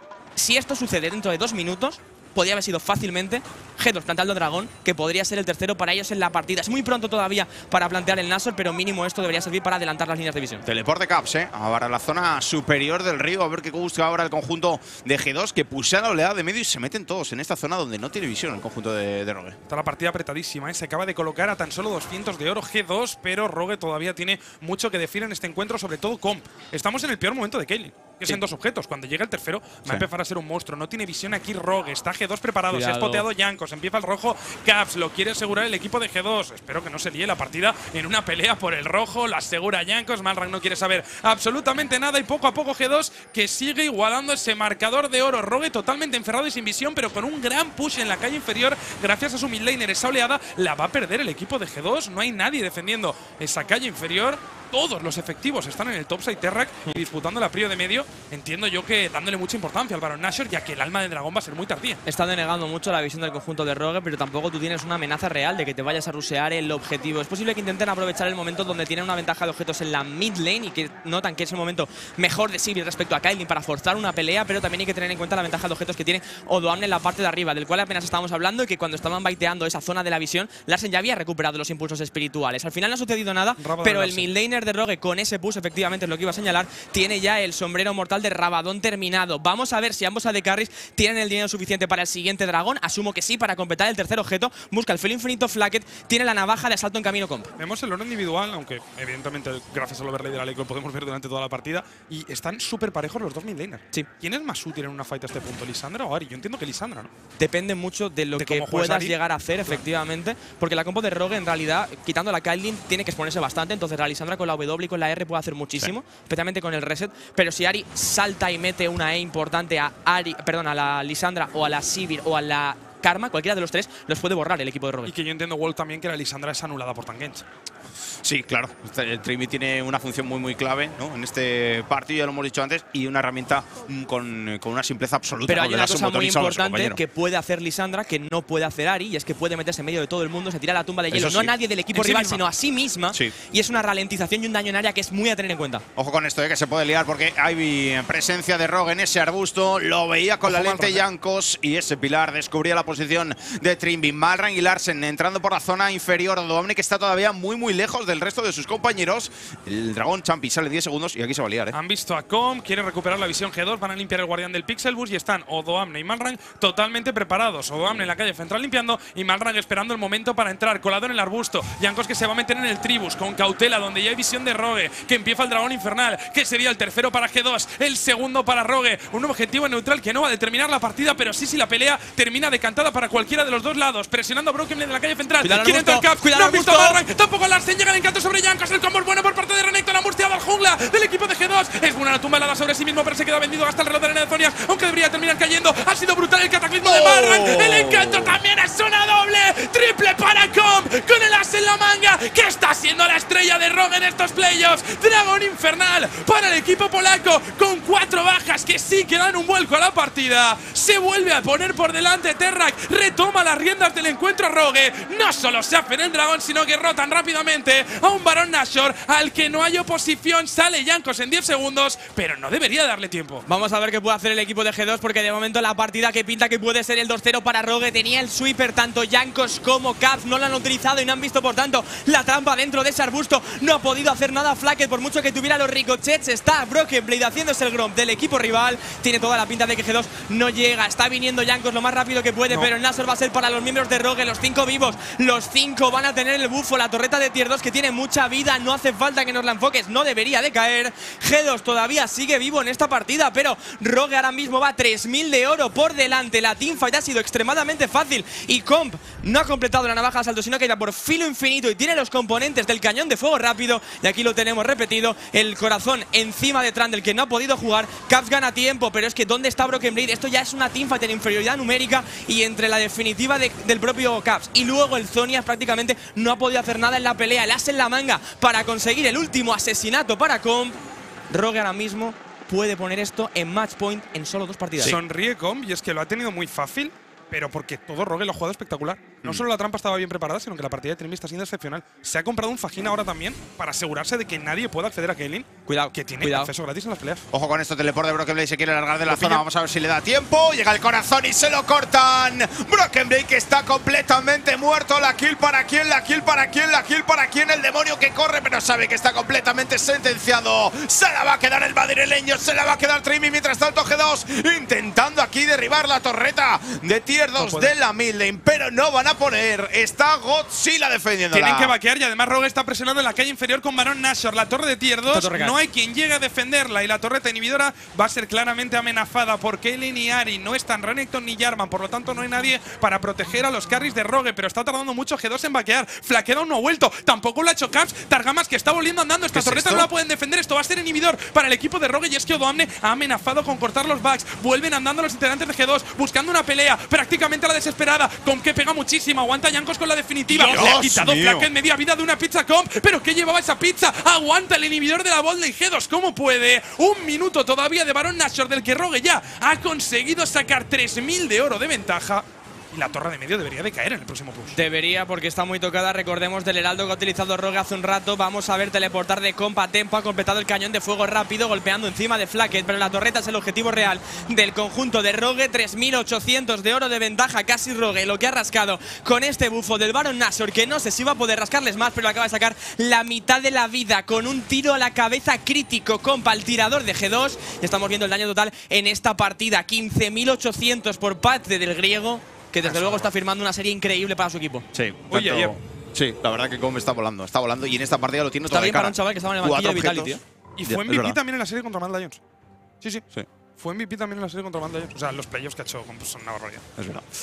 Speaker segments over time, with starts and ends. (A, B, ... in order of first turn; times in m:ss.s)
0:00.4-0:10.6 A
0:10.6-0:19.6 B
0:19.7-1:02.0 C
0:32.7-0:33.2 A
1:02.0-1:37.5 A
1:23.6-1:24.3 C
1:37.6-1:47.1 C
1:47.4-2:05.1 A
1:48.4-1:49.8 C
2:05.0-2:07.4 C
2:08.2-2:17.0 B
2:15.5-2:25.8 A
2:21.1-2:21.5 B
2:21.9-2:22.4 C
2:26.0-2:41.8 B
2:30.4-2:31.0 C
2:41.7-3:43.4 C
3:05.4-3:07.0 A
3:16.8-3:18.4 B
3:43.4-4:40.8 A
4:41.3-4:44.9 A
4:44.8-4:57.2 C
4:55.7-4:56.5 A
4:57.3-5:21.7 B
4:59.1-4:59.4 C
5:17.4-5:17.7 C
5:21.3-6:04.6 C
5:25.1-5:25.5 A
5:39.3-5:39.9 B
5:50.3-5:50.8 A
5:50.3-5:51.5 B
6:04.5-6:34.7 A
6:34.7-6:41.2 B
6:35.1-6:35.5 C
6:38.5-6:40.2 A
6:40.6-6:42.2 C
6:43.6-6:46.6 C
6:46.8-6:47.1 B